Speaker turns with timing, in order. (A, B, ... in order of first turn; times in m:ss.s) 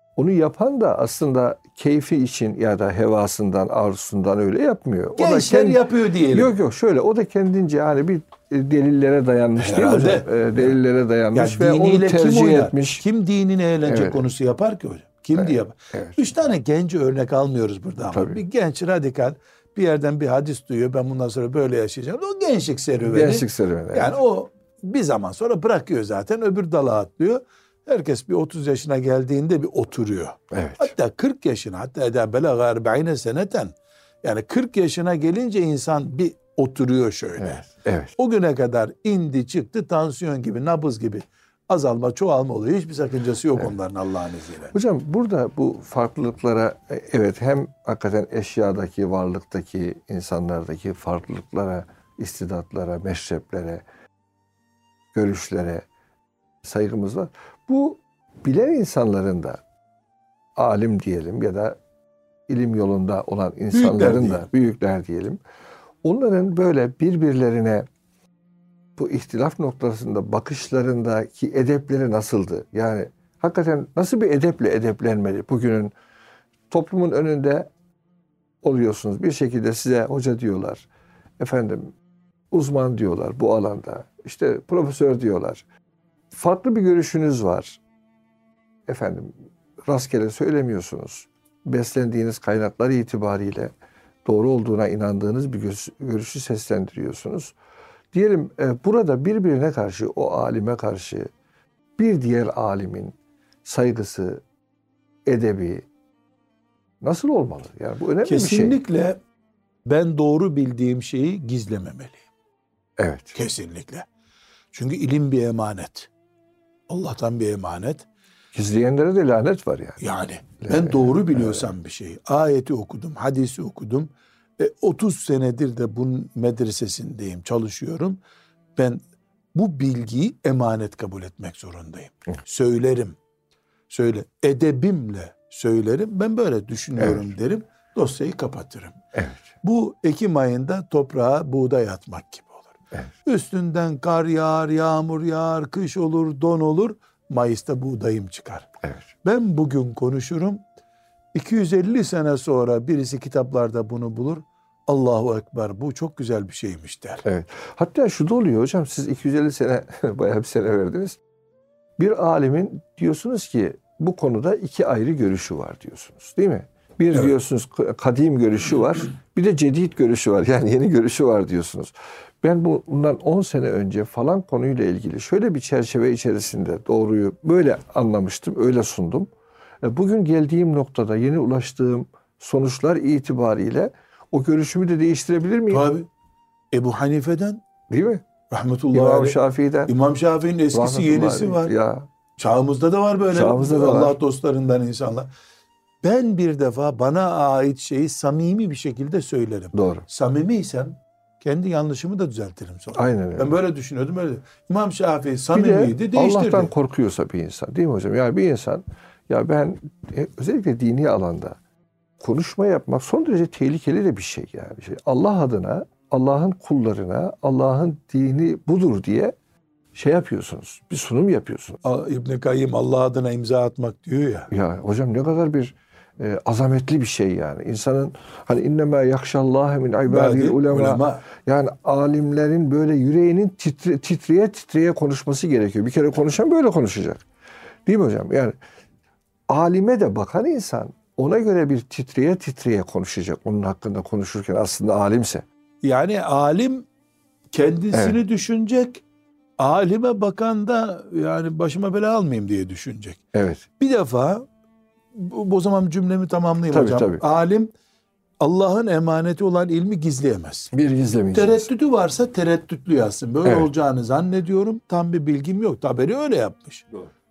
0:00.2-0:05.8 A
0:05.2-0:06.5 B
0:06.3-0:13.0 A
0:09.6-0:10.8 B
0:11.3-0:37.6 B
0:13.8-0:14.2 A
0:15.9-0:16.2 A
0:18.1-0:18.4 A
0:23.1-0:24.2 A
0:30.5-0:30.9 A
0:37.4-0:38.1 A
0:38.2-0:44.7 B
0:44.7-0:53.8 A
0:55.1-0:55.8 A
0:56.6-0:59.6 A
1:00.6-1:01.8 A
1:02.5-1:05.4 A
1:03.7-1:04.5 B
1:06.0-1:07.8 A
1:09.0-1:15.9 A
1:16.7-1:17.7 A
1:18.6-1:20.8 A
1:21.4-1:21.9 A
1:22.5-1:25.6 A
1:26.3-1:27.8 A
1:28.9-1:29.3 A
1:29.9-1:33.7 A
1:34.2-1:37.6 A
1:38.1-1:41.3 A
1:42.0-1:44.4 A
1:45.3-1:45.8 A
1:47.0-1:48.8 A
1:48.2-1:49.2 B
1:49.8-1:52.2 B
1:53.0-1:53.4 A
1:53.3-1:54.1 B
1:54.7-1:56.1 B
1:56.9-1:58.0 B
1:58.5-2:00.0 A
2:00.0-2:08.2 B
2:00.6-2:01.7 A
2:08.8-2:09.0 B
2:09.5-2:13.2 B
2:13.9-2:19.0 B
2:19.1-2:19.4 A
2:19.6-2:28.7 B
2:29.2-2:30.6 B
2:31.3-2:37.2 B
2:37.2-2:41.2 A
2:42.0-2:59.3 A
2:59.8-3:05.8 A
3:05.7-3:06.1 B
3:06.7-3:07.6 B
3:07.9-3:08.2 A
3:08.5-3:11.7 B
3:08.9-3:09.9 A
3:10.7-3:12.1 A
3:12.4-3:15.3 B
3:13.3-3:14.1 A
3:16.0-3:26.7 B
3:19.7-3:20.0 A
3:23.0-3:23.6 A
3:25.5-3:31.6 A
3:32.2-3:39.3 A
3:39.9-3:41.8 A
3:41.8-3:44.5 B
3:44.5-3:57.2 A
3:50.1-3:51.2 B
3:57.8-3:58.6 A
3:59.5-4:05.4 A
4:05.8-4:06.8 B
4:07.5-4:09.0 B
4:07.9-4:08.2 A
4:09.6-4:13.2 B
4:13.3-4:13.6 A
4:13.8-4:14.4 B
4:15.1-4:17.7 B
4:16.7-4:17.2 A
4:18.4-4:20.7 B
4:20.7-4:21.6 A
4:21.3-4:26.9 B